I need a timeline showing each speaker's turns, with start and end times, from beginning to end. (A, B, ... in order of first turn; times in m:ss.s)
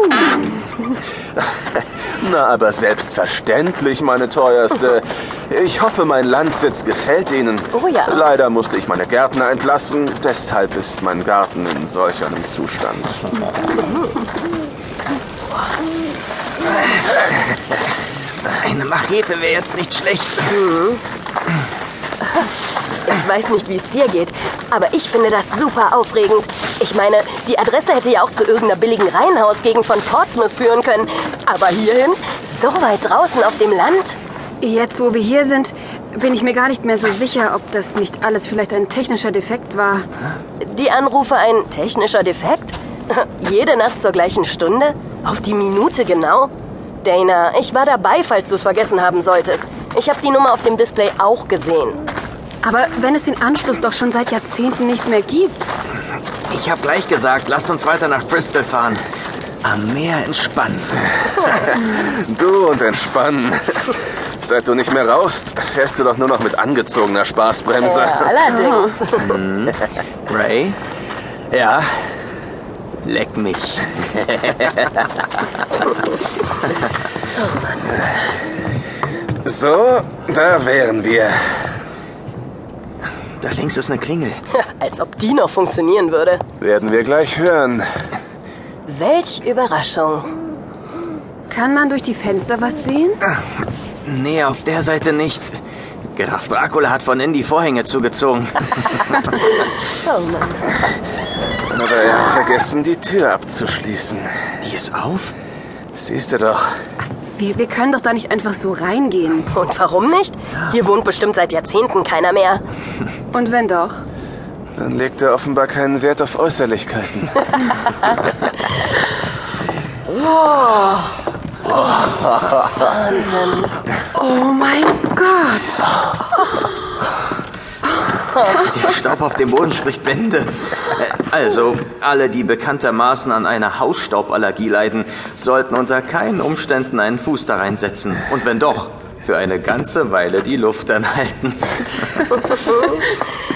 0:01.4-0:13.4 A
0:07.7-0:08.2 B
0:13.8-0:14.1 B
0:18.5-0:20.6 C
0:20.5-0:21.0 B
0:23.1-0:34.2 B
0:34.6-0:40.1 D
0:40.6-0:46.5 B
0:47.0-0:52.0 B
0:52.6-0:55.7 D
0:56.5-0:59.0 C
0:59.6-1:01.0 C
1:01.6-1:08.4 A
1:07.8-1:09.3 B
1:09.2-1:10.8 C
1:11.5-1:12.0 A
1:13.0-1:14.4 C
1:17.4-1:17.7 B
1:19.4-1:21.4 A
1:23.4-1:24.4 C
1:24.5-1:26.4 B
1:26.6-1:27.9 A
1:28.9-1:30.3 B
1:31.5-1:33.2 D
1:34.0-1:35.6 C
1:36.1-1:39.3 C
1:39.5-1:40.7 B
1:41.7-1:44.4 A
1:44.6-1:45.3 C
1:45.9-1:46.8 A
1:47.3-1:49.5 D
1:49.5-1:52.6 B
1:53.3-1:54.0 D
1:54.8-1:57.7 A
2:02.7-2:03.8 B
2:04.2-2:05.8 D
2:08.4-2:22.0 C